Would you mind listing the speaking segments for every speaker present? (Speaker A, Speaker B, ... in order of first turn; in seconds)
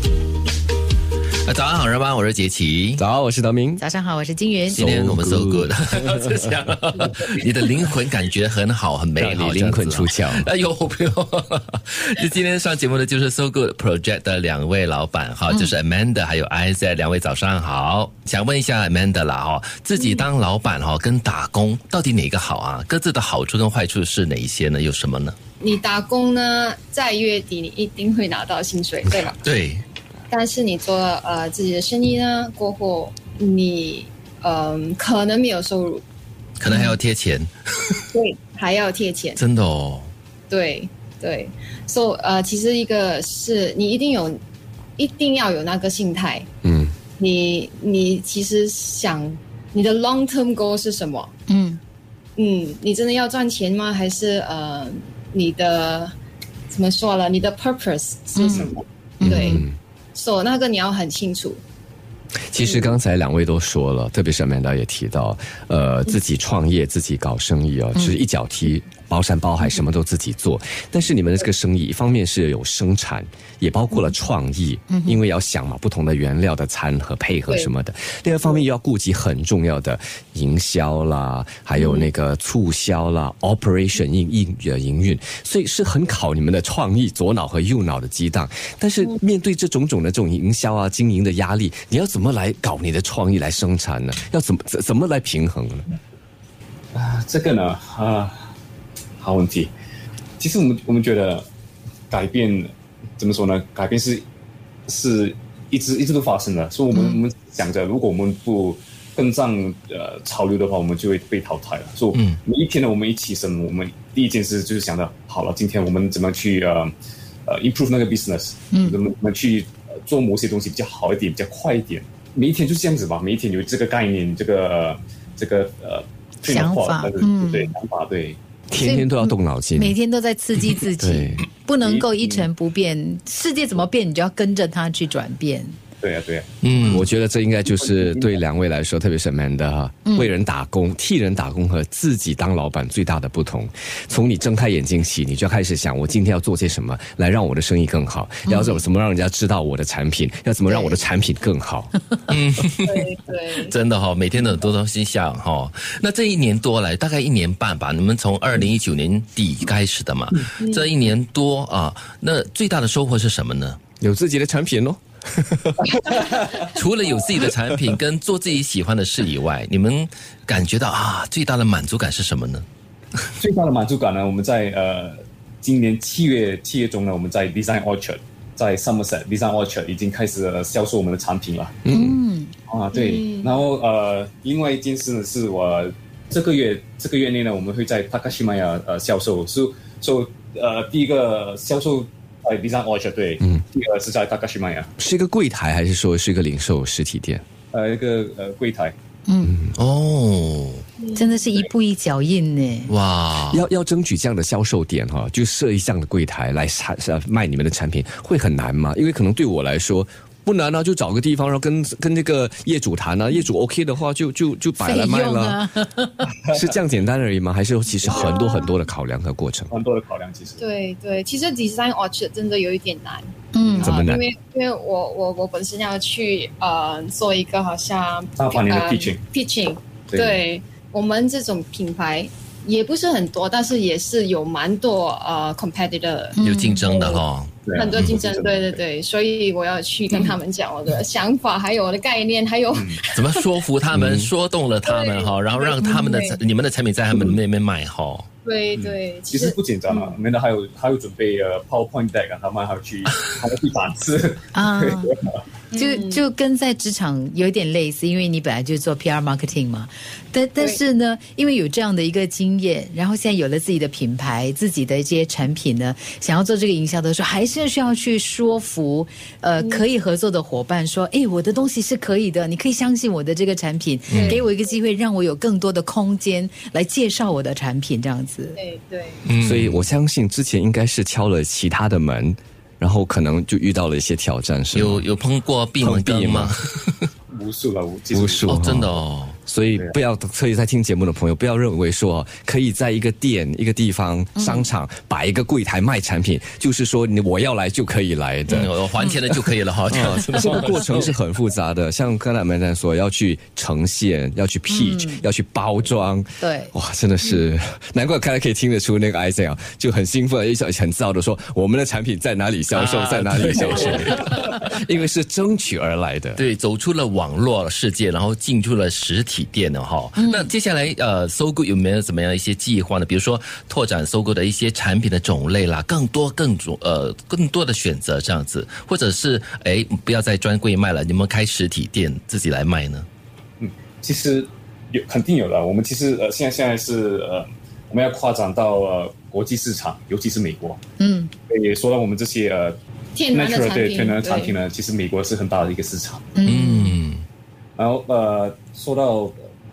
Speaker A: 1.4-3.0, 4.7-25.4, 29.3-29.8, 36.6-37.5, 39.4-40.1, 112.1-112.4, 136.6-137.1, 152.3-153.0, 153.6-163.8, 166.7-172.7, 199.8-200.8, 202.9-203.7, 236.4-238.2, 243.2-248.3, 274.1-274.4, 279.3-279.9, 284.7-287.1, 288.5-289.4, 298.5-301.1, 312.7-314.7, 316.4-333.1, 346.4-347.2
Speaker B: 3.0-3.8, 4.7-6.5, 9.2-10.5, 46.6-46.9, 59.2-59.8, 62.5-95.9, 128.7-130.0, 131.0-131.4, 136.9-151.9, 164.0-166.4, 181.8-182.2, 195.0-197.4, 199.4-199.8, 203.5-215.6, 216.5-219.7, 223.8-224.2, 243.9-244.3, 279.4-285.1, 285.8-286.6, 288.1-298.8, 299.9-316.4
Speaker C: 3.8-4.8, 36.7-37.0, 51.5-51.8, 58.4-59.6, 74.9-75.2, 106.9-107.2, 118.7-119.0, 126.5-127.7, 128.8-135.8, 140.1-140.3, 148.5-148.8, 181.9-182.5, 199.3-199.6, 201.2-202.9, 214.8-216.3, 223.5-223.9, 236.4-237.0, 245.8-246.3, 254.5-255.1, 255.7-278.6, 294.4-294.7, 304.7-305.2, 306.4-306.7, 320.2-320.5, 341.0-341.3, 346.4-346.9
Speaker D: 20.0-20.3, 25.6-29.4, 30.3-36.0, 38.1-39.4, 40.5-44.4, 45.0-46.5, 47.2-51.3, 52.4-56.1, 56.7-61.6, 62.6-63.0, 81.8-82.1, 150.7-151.0, 152.8-153.7, 160.6-161.0, 182.9-183.7, 201.0-201.5, 218.1-218.7, 220.6-243.4, 244.8-246.4, 248.4-250.2, 255.7-256.3, 269.6-269.9, 274.1-274.5, 278.6-279.3, 343.1-344.6
Speaker E: 96.9-98.4, 99.2-99.7, 100.4-101.5, 102.1-104.2, 104.9-116.9, 117.5-128.4, 131.8-132.5, 136.0-137.1, 137.7-138.4, 173.4-181.8, 182.7-194.9, 197.7-198.9, 218.1-218.3, 219.7-220.6, 228.4-229.2, 230.1-230.4, 237.7-238.8, 242.7-243.0, 247.1-247.4, 249.3-255.4, 287.3-288.6, 333.6-340.8, 341.5-342.8, 343.3-346.3, 347.8-349.4